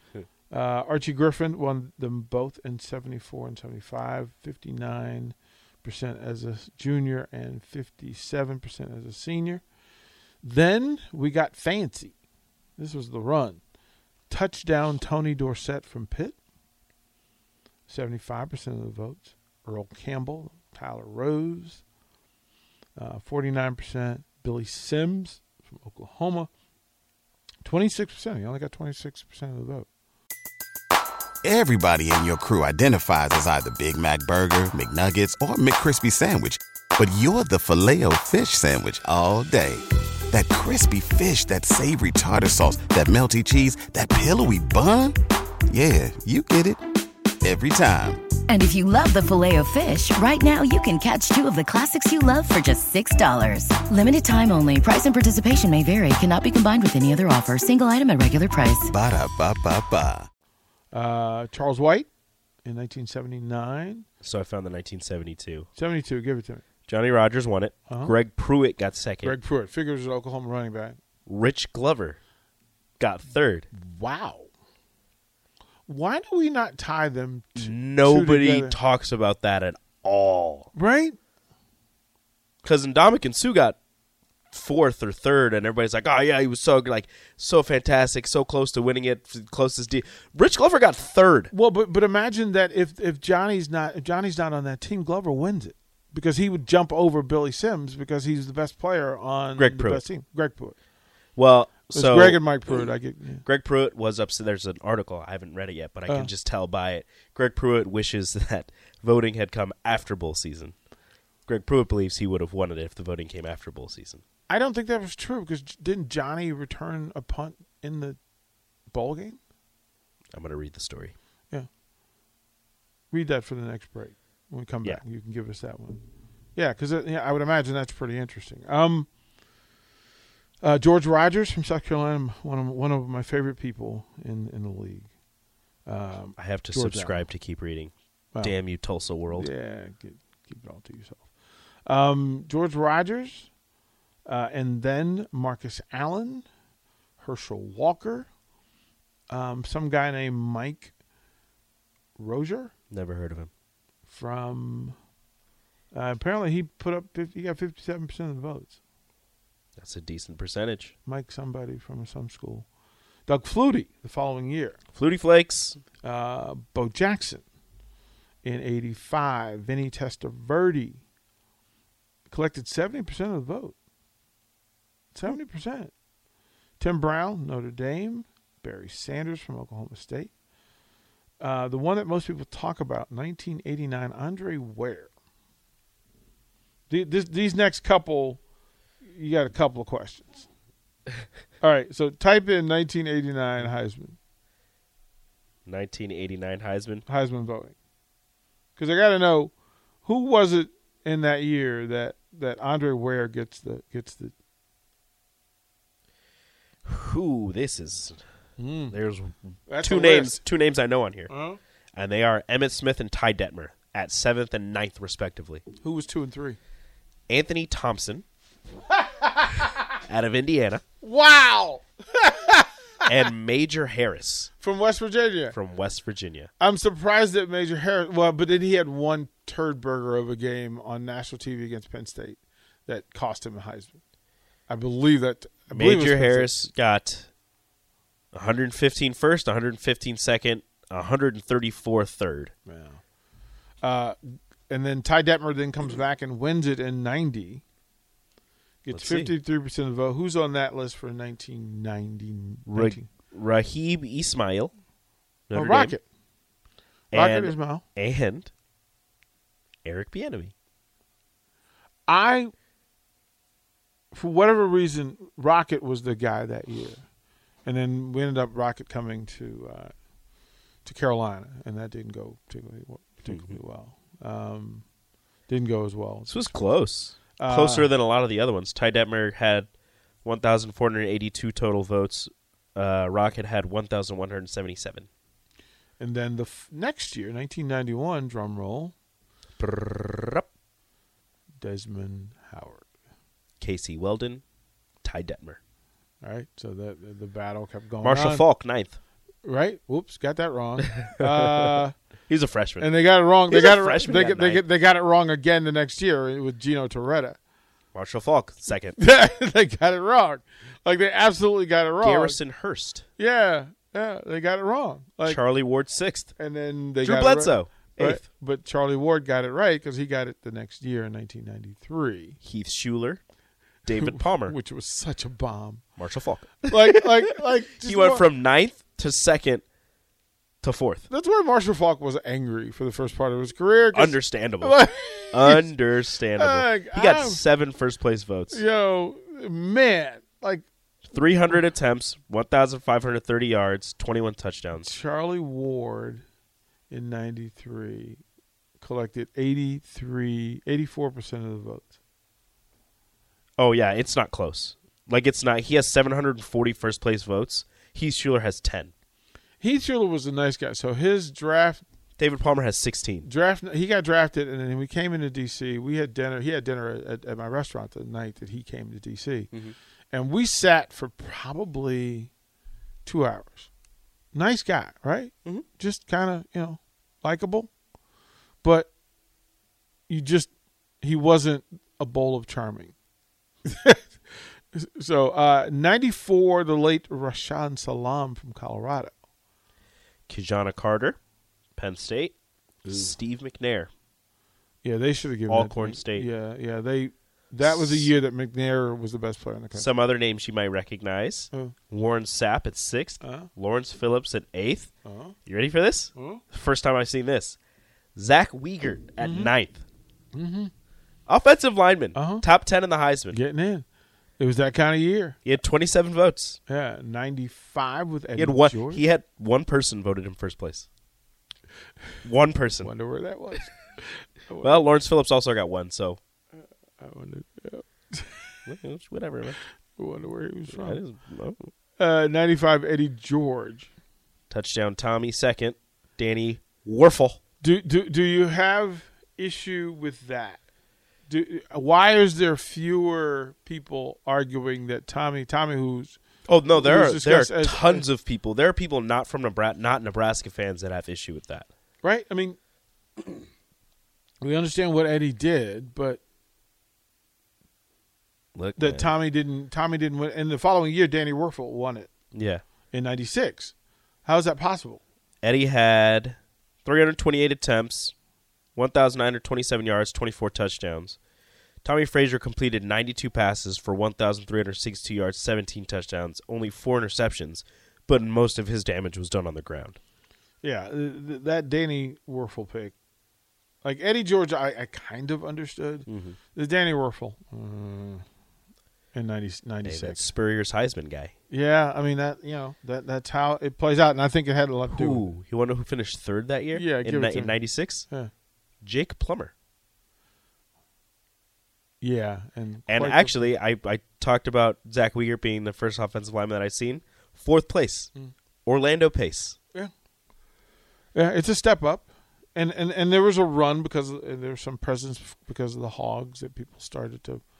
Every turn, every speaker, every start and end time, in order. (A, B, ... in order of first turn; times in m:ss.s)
0:00.5-0:09.6 A
0:10.4-0:12.1 A
0:12.8-0:13.6 A
0:14.3-0:16.4 A
0:17.9-0:21.8 A
0:23.0-0:26.5 A
0:27.6-0:29.9 A
0:31.4-0:45.2 B
0:45.7-0:46.8 B
0:47.4-0:48.2 B
0:48.5-0:58.9 C
0:58.9-1:00.3 B
1:00.9-1:02.1 A
1:02.6-1:04.0 A
1:04.2-1:05.7 D
1:05.7-1:06.6 A
1:06.9-1:09.4 D
1:07.9-1:08.1 A
1:09.2-1:11.0 A
1:11.3-1:12.2 D
1:13.0-1:13.7 D
1:13.7-1:14.5 A
1:15.9-1:18.8 A
1:17.6-1:20.7 D
1:20.7-1:21.2 A
1:22.6-1:23.8 D
1:24.5-1:31.5 D
1:31.5-1:40.8 A
1:39.6-1:40.0 D
1:41.4-1:42.5 D
1:41.9-1:43.4 A
1:43.4-1:50.7 D
1:51.5-1:54.2 D
1:54.5-1:58.2 A
1:58.9-1:59.4 A
2:00.3-2:01.1 D
2:03.1-2:06.0 A
2:06.5-2:09.1 A
2:10.6-2:15.1 A
2:15.8-2:17.2 A
2:16.4-2:19.5 D
2:19.3-2:21.3 A
2:21.8-2:23.5 A
2:24.2-2:26.4 A
2:27.2-2:28.3 A
2:29.3-2:30.9 A
2:32.2-2:32.7 A
2:32.9-2:33.5 D
2:34.1-2:35.0 A
2:35.9-2:38.8 A
2:39.8-2:40.9 D
2:41.0-2:42.7 A
2:43.3-2:44.8 A
2:44.9-2:45.8 D
2:46.0-2:47.4 A
2:48.4-2:51.0 A
2:52.3-2:53.7 A
2:55.1-2:55.9 A
2:56.8-3:00.3 A
3:01.4-3:05.1 A
3:06.9-3:08.4 A
3:09.0-3:10.5 A
3:11.6-3:14.2 A
3:15.6-3:17.0 D
3:17.1-3:17.7 A
3:18.8-3:19.5 A
3:20.0-3:24.3 A
3:26.8-3:28.2 D
3:28.6-3:29.0 A
3:28.9-3:31.3 D
3:29.7-3:30.4 A
3:31.3-3:31.6 A
3:31.9-3:35.6 D
3:35.8-3:36.6 A
3:37.3-3:38.2 D
3:39.2-3:39.6 A
3:40.1-3:40.8 D
3:41.0-3:42.7 A
3:43.0-3:44.5 D
3:44.6-3:45.6 A
3:45.5-3:46.5 D
3:46.6-3:54.0 A
3:54.7-3:56.5 A
3:55.7-3:57.3 D
3:58.3-4:02.5 D
4:02.6-4:03.0 A
4:03.8-4:07.6 A
4:08.8-4:13.1 A
4:08.9-4:09.3 D
4:12.7-4:14.7 D
4:15.5-4:15.9 D
4:15.5-4:16.0 A
4:17.1-4:17.8 A
4:17.1-4:18.5 D
4:19.8-4:20.5 D
4:22.1-4:22.5 A
4:24.1-4:27.0 A
4:27.6-4:29.9 A
4:30.8-4:34.8 A
4:33.3-4:33.5 D
4:35.5-4:36.6 A
4:36.3-4:39.7 D
4:37.4-4:37.9 A
4:40.2-4:45.1 D
4:46.0-4:48.9 A
4:49.6-4:50.4 D
4:51.6-4:52.8 A
4:53.6-4:54.4 D
4:55.0-4:55.6 D
4:56.2-4:58.4 A
4:58.0-4:59.0 D
4:59.4-5:01.9 A
5:00.9-5:01.7 D
5:02.3-5:02.9 D
5:02.8-5:07.4 A
5:03.5-5:04.6 D
5:07.9-5:09.0 D
5:09.0-5:12.4 A
5:12.0-5:13.0 D
5:13.2-5:15.4 A
5:15.2-5:16.3 D
5:16.4-5:22.4 A
5:17.0-5:18.2 D
5:22.4-5:23.2 D
5:23.8-5:24.5 D
5:23.9-5:25.8 A
5:26.0-5:27.1 D
5:26.6-5:28.2 A
5:27.8-5:29.6 D
5:30.6-5:31.0 D
5:31.1-5:35.7 A
5:33.9-5:38.6 D
5:36.4-5:37.4 A
5:38.5-5:40.6 A
5:41.1-5:44.9 D
5:44.8-5:46.2 A
5:46.9-5:48.2 A
5:48.8-5:51.9 A
5:53.6-5:58.9 D
5:59.6-6:01.8 A
6:02.2-6:03.3 D
6:03.2-6:09.5 A
6:10.1-6:12.3 A
6:13.0-6:13.7 A
6:14.3-6:17.7 A
6:18.6-6:18.9 A
6:20.1-6:20.5 A
6:21.0-6:22.9 A
6:23.6-6:24.0 A
6:24.7-6:29.1 A
6:30.3-6:31.2 D
6:31.8-6:32.3 D
6:32.8-6:33.9 D
6:34.8-6:39.9 A
6:35.5-6:36.3 D
6:37.6-6:38.1 D
6:39.7-6:44.9 D
6:43.2-6:43.5 A
6:45.0-6:45.3 A
6:45.4-6:47.6 D
6:46.1-6:46.4 A
6:48.2-6:49.8 D
6:49.2-6:49.5 A
6:50.3-6:50.7 A
6:51.3-6:53.4 D
6:52.1-6:52.4 A
6:53.3-6:53.8 A
6:54.4-6:55.4 A
6:55.4-6:56.6 D
6:56.7-6:59.0 A
6:58.4-7:00.9 D
7:02.2-7:02.9 D
7:02.8-7:03.7 A
7:04.5-7:04.8 A
7:04.6-7:06.2 D
7:06.5-7:08.6 A
7:08.7-7:09.6 D
7:10.0-7:11.0 A
7:10.7-7:11.7 D
7:12.0-7:13.9 A
7:14.5-7:17.4 D
7:17.6-7:20.6 A
7:21.3-7:26.2 A
7:26.5-7:31.7 D
7:26.7-7:28.0 A
7:32.0-7:32.6 A
7:34.4-7:36.2 A
7:38.5-7:39.1 D
7:38.8-7:42.1 A
7:42.3-7:42.6 D
7:42.9-7:43.7 A
7:44.2-7:45.0 A
7:45.4-7:48.1 D
7:48.8-7:51.2 D
7:51.8-8:00.0 D
8:00.6-8:02.9 A
8:03.8-8:08.2 A
8:06.1-8:06.4 D
8:09.1-8:10.2 A
8:09.8-8:11.3 D
8:11.5-8:15.2 A
8:14.9-8:18.0 D
8:16.7-8:18.3 A
8:18.8-8:19.5 D
8:22.0-8:23.4 A
8:22.9-8:28.1 D
8:28.6-8:29.6 D
8:31.1-8:37.4 A